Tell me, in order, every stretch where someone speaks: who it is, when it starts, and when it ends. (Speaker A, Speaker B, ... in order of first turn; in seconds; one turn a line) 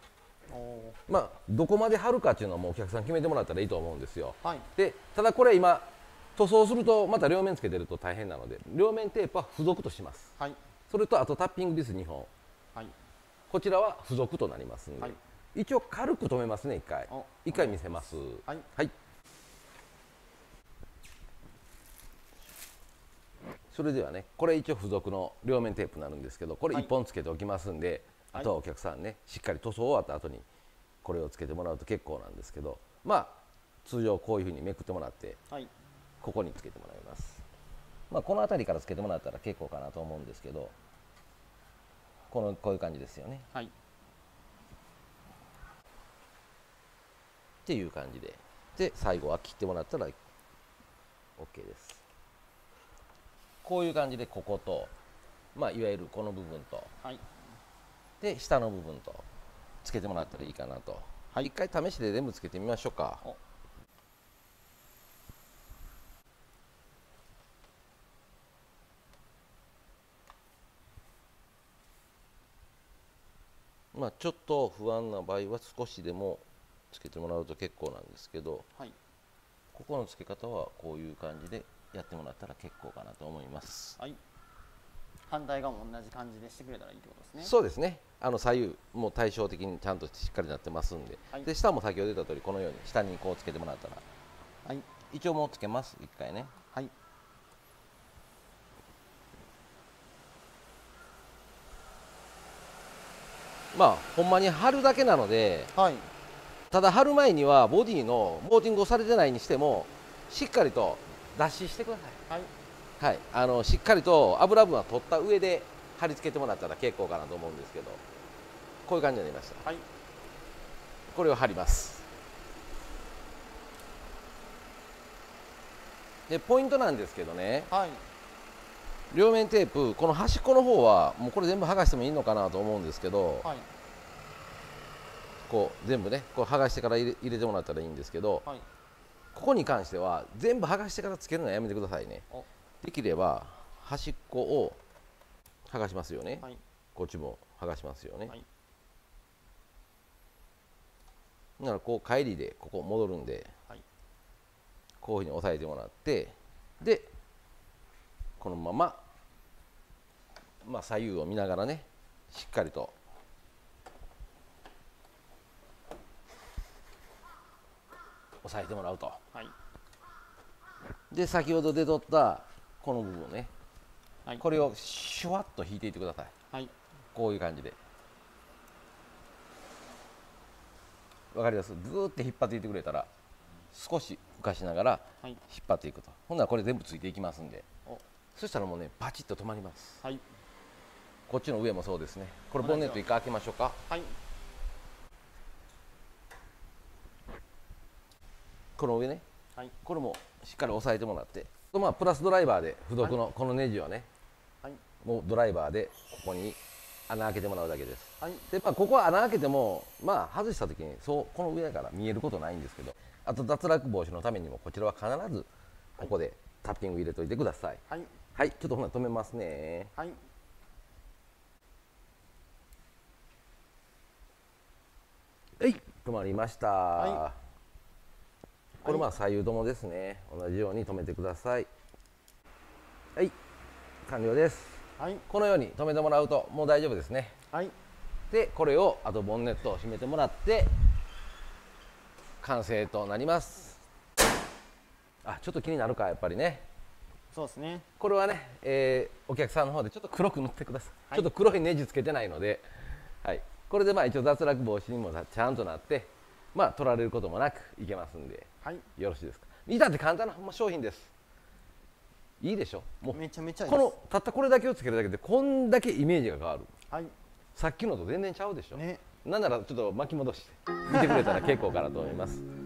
Speaker A: 0.5-1.0
Speaker B: 1.1-10.3
Speaker A: 4.4-4.7
Speaker B: 10.9-12.3
Speaker B: 13.5-18.9
Speaker A: 17.1-17.9
Speaker B: 23.7-30.5
Speaker B: 31.0-35.4
Speaker B: 36.2-37.4
Speaker B: 38.1-40.7
Speaker B: 42.3-43.5
Speaker B: 47.6-50.2
Speaker B: 51.4-52.0
Speaker B: 53.6-54.9
Speaker B: 55.5-56.9
Speaker B: 58.2-59.3
Speaker B: 59.8-63.2
Speaker B: 73.9-78.7
Speaker B: 79.7-84.0
Speaker A: 85.3-87.5
Speaker B: 87.4-94.0
Speaker A: 94.7-94.9
Speaker B: 95.1-96.5
Speaker B: 103.7-105.7
Speaker A: 105.7-106.1
Speaker B: 106.7-112.2
Speaker B: 113.0-118.0
Speaker B: 118.9-119.7
Speaker B: 121.1-122.1
Speaker B: 126.3-127.7
Speaker A: 127.7-128.0
Speaker B: 129.1-133.5
Speaker A: 133.4-133.7
Speaker B: 135.5-138.5
Speaker B: 139.3-142.2
Speaker B: 142.8-144.8
Speaker B: 145.7-148.3
Speaker B: 151.6-153.5
Speaker B: 155.0-157.1
Speaker B: 158.4-159.0
Speaker B: 160.6-162.9
Speaker B: 168.4-169.2
Speaker B: 171.1-173.5
Speaker B: 174.4-176.3
Speaker B: 177.2-177.8
Speaker B: 181.3-183.1
Speaker B: 183.7-187.7
Speaker B: 188.3-190.0
Speaker B: 191.3-193.8
Speaker A: 192.6-193.1
Speaker A: 193.9-194.2
Speaker B: 198.8-199.2
Speaker B: 199.8-204.1
Speaker B: 205.0-217.8
Speaker A: 208.2-208.5
Speaker B: 218.3-219.9
Speaker B: 225.6-227.4
Speaker A: 227.0-227.3
Speaker B: 228.8-231.7
Speaker A: 228.8-229.1
Speaker B: 234.1-237.3
Speaker A: 235.0-235.2
Speaker B: 238.3-240.8
Speaker B: 242.4-243.8
Speaker B: 245.2-246.7
Speaker A: 247.3-247.9
Speaker B: 248.0-252.7
Speaker B: 253.2-261.1
Speaker B: 262.4-266.7
Speaker A: 263.1-263.9
Speaker B: 267.6-272.4
Speaker A: 268.7-269.1
Speaker A: 270.9-271.4